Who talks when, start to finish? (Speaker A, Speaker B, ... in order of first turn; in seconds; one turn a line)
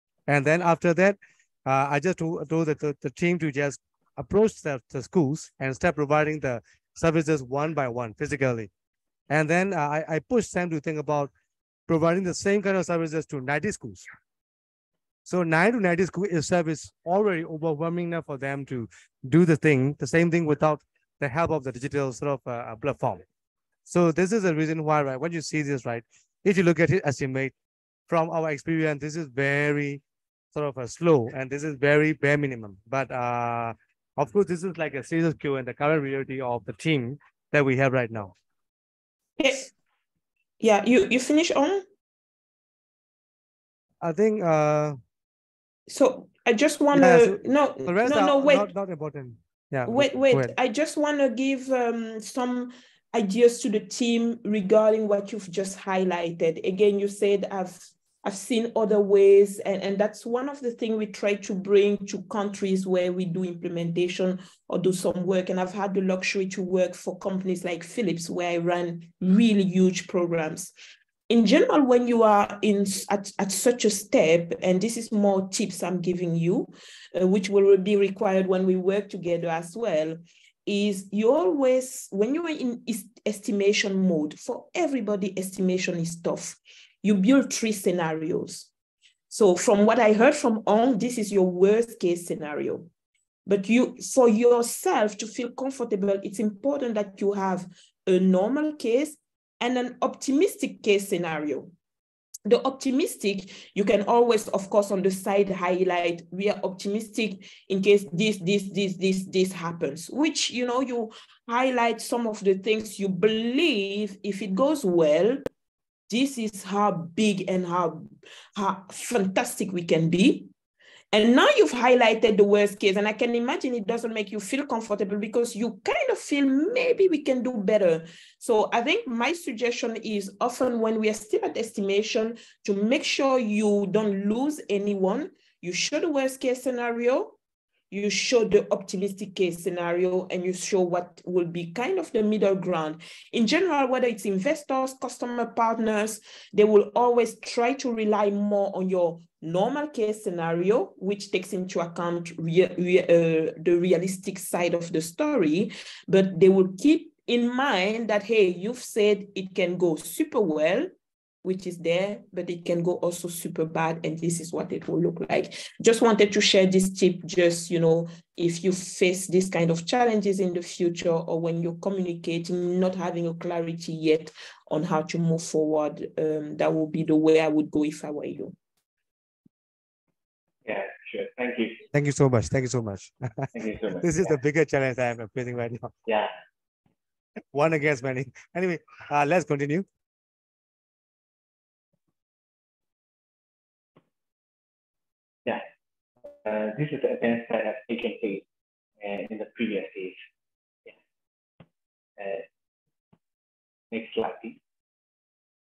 Speaker A: 0.3-8.7
Speaker A: 9.3-11.3
Speaker A: 11.9-14.1
Speaker A: 15.2-23.2
Speaker A: 23.9-27.5
Speaker A: 28.1-30.0
Speaker A: 30.5-38.3
Speaker B: 39.4-39.7
Speaker B: 40.6-41.8
Speaker A: 44.0-45.0
Speaker B: 45.9-48.7
Speaker A: 46.9-50.5
Speaker B: 49.9-70.7
Speaker B: 71.3-88.7
Speaker B: 89.3-92.9
Speaker B: 93.5-101.7
Speaker B: 102.5-115.4
Speaker B: 116.1-120.5
Speaker B: 121.1-137.3
Speaker B: 137.9-160.9
Speaker B: 161.4-178.5
Speaker C: 180.6-181.8
Speaker A: 181.9-185.9
Speaker C: 183.5-184.2
Speaker C: 186.1-186.3
Speaker A: 187.5-189.8
Speaker C: 196.4-198.4
Speaker C: 199.0-200.2
Speaker C: 202.2-202.4
Speaker C: 203.9-204.6